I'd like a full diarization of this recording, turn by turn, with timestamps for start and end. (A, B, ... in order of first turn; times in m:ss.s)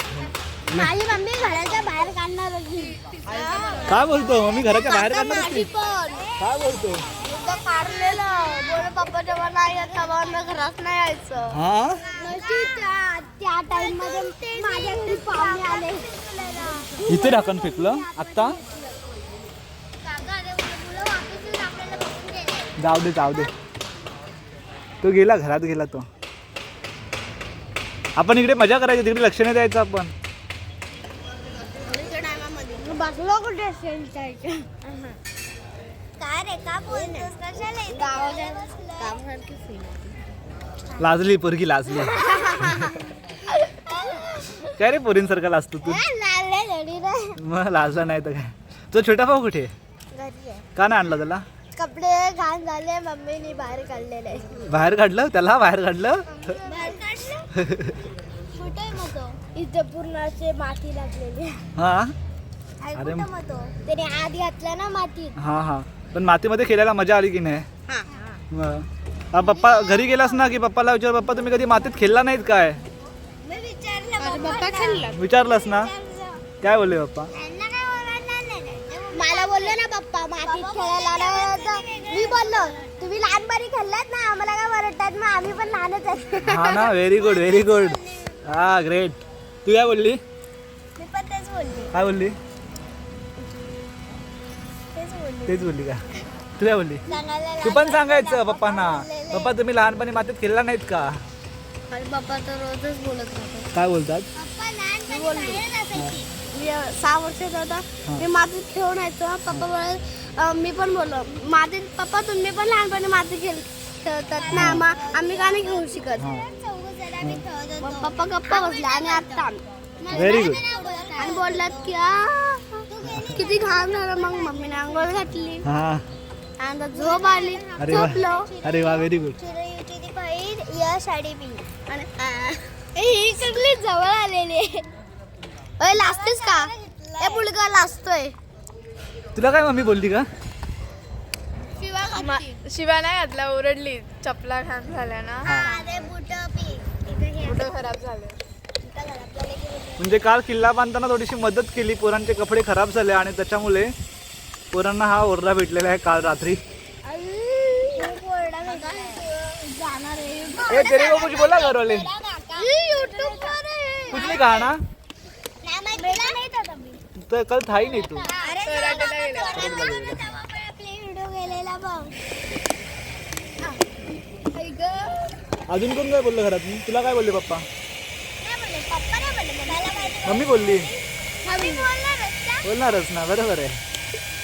0:00.7-0:06.2 A
0:01.3-0:02.1 B
0:03.0-0:04.3 B
0:03.2-0:04.0 C
0:03.8-0:05.7 D
0:05.3-0:10.4 B
0:06.4-0:07.0 D
0:07.2-0:11.6 A
0:11.5-0:12.0 D
0:12.0-0:12.9 B
0:12.2-0:19.0 A
0:13.7-0:16.8 B
0:17.1-0:18.6 D
0:20.0-0:23.4 A
0:21.9-0:22.7 B
0:22.8-0:23.5 D
0:25.0-0:26.1 D
0:28.2-0:30.1 D
0:31.8-0:35.2 A
0:36.2-0:39.2 B
0:36.9-0:37.3 A
0:37.9-0:40.2 A
0:41.0-0:43.0 D
0:42.0-0:43.1 A
0:42.2-0:42.6 B
0:43.9-0:44.4 B
0:44.1-0:44.7 A
0:44.8-0:46.0 D
0:45.8-0:47.4 A
0:47.4-0:49.7 D
0:50.1-0:50.6 A
0:50.8-0:51.4 D
0:51.7-0:54.6 A
0:54.7-0:56.3 D
0:56.3-0:57.0 A
0:56.6-0:57.4 B
0:57.5-0:58.0 D
0:58.6-1:01.6 A
0:58.6-0:59.1 B
1:01.8-1:02.1 D
1:02.8-1:05.4 A
1:02.9-1:03.3 D
1:05.4-1:07.7 D
1:07.9-1:08.4 A
1:08.5-1:12.8 D
1:09.4-1:10.6 A
1:13.4-1:16.4 B
1:14.2-1:15.2 A
1:14.3-1:15.1 C
1:15.1-1:15.9 D
1:16.6-1:17.3 D
1:17.3-1:19.8 B
1:19.1-1:27.0 A
1:20.4-1:23.1 B
1:26.4-1:30.2 D
1:27.0-1:28.5 B
1:31.0-1:31.9 B
1:31.9-1:32.4 D
1:35.0-1:35.3 B
1:35.2-1:35.5 A
1:35.4-1:36.0 D
1:36.6-1:37.0 D
1:37.1-1:39.5 B
1:37.6-1:41.2 D
1:41.9-1:43.7 A
1:43.7-1:44.3 D
1:44.3-1:46.3 B
1:45.1-1:45.6 A
1:45.9-1:46.2 D
1:46.4-1:56.3 A
1:54.4-1:59.5 B
1:54.5-1:54.8 D
1:56.2-1:56.5 D
1:57.8-2:05.6 A
2:00.0-2:01.9 B
2:00.1-2:00.6 D
2:02.9-2:05.5 B
2:03.1-2:03.4 D
2:05.6-2:06.0 D
2:06.6-2:08.5 A
2:06.9-2:11.6 B
2:07.8-2:09.4 D
2:10.8-2:14.8 A
2:15.8-2:18.3 A
2:15.9-2:17.5 B
2:19.3-2:20.3 D
2:21.8-2:22.6 A
2:22.2-2:25.6 C
2:25.4-2:25.8 D
2:25.5-2:25.9 A
2:25.5-2:27.8 B
2:27.4-2:28.1 A
2:27.5-2:28.3 C
2:28.8-2:30.1 B
2:30.0-2:33.9 D
2:34.7-2:36.6 D
2:37.0-2:41.4 A
2:38.0-2:39.3 B
2:40.5-2:43.6 B
2:40.7-2:42.1 D
2:42.6-2:44.7 A
2:44.1-2:44.8 D
2:44.1-2:44.4 B
2:45.6-2:46.4 B
2:45.9-2:47.0 A
2:47.2-2:48.3 D
2:47.9-2:50.0 A
2:48.3-2:52.1 B
2:48.7-2:49.5 C
2:49.5-2:50.2 D
2:54.5-2:55.3 A
2:55.7-2:57.7 D
2:58.4-3:00.4 A
2:59.6-3:02.6 B
3:00.2-3:00.9 D
3:01.4-3:01.9 A
3:02.6-3:03.8 D